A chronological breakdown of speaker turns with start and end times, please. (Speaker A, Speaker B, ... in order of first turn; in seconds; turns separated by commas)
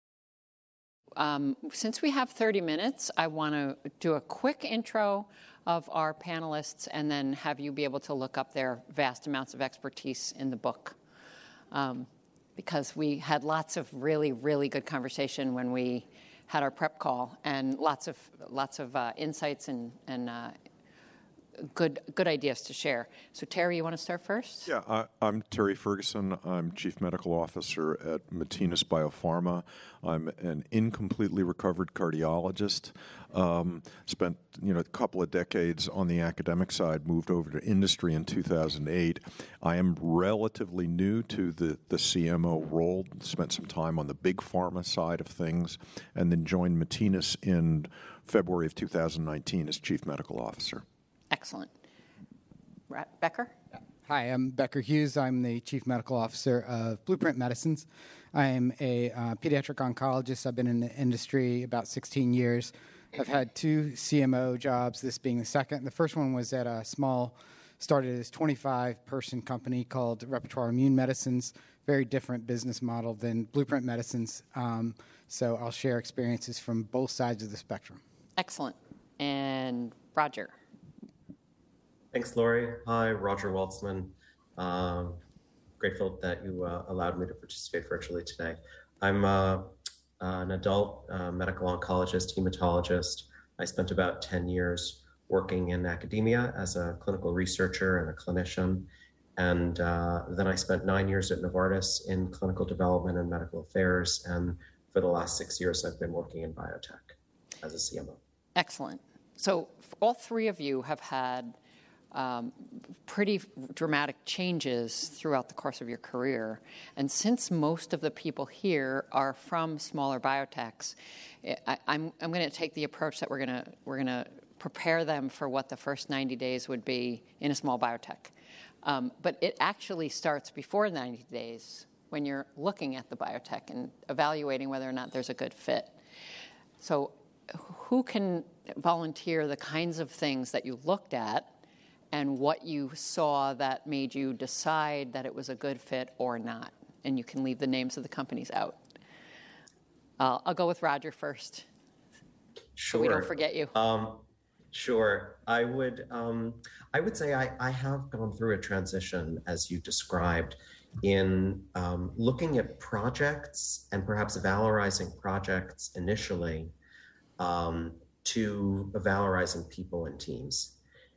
Speaker A: 1.2-11.0, Speaker A: 11.7-20.6, Speaker A: 21.6-24.7, Speaker B: 24.7-50.8, Speaker A: 51.3-51.7, Speaker A: 52.9-53.5, Speaker C: 54.1-78.0, Speaker A: 78.4-80.5, Speaker D: 82.1-85.2, Speaker D: 85.8-108.2, Speaker A: 108.6-111.6, Speaker A: 112.1-136.0, Speaker A: 136.8-141.6, Speaker A: 142.1-148.8, Speaker A: 150.2-151.7, Speaker D: 152.8-166.7, Speaker A: 152.9-153.8, Speaker D: 167.4-170.8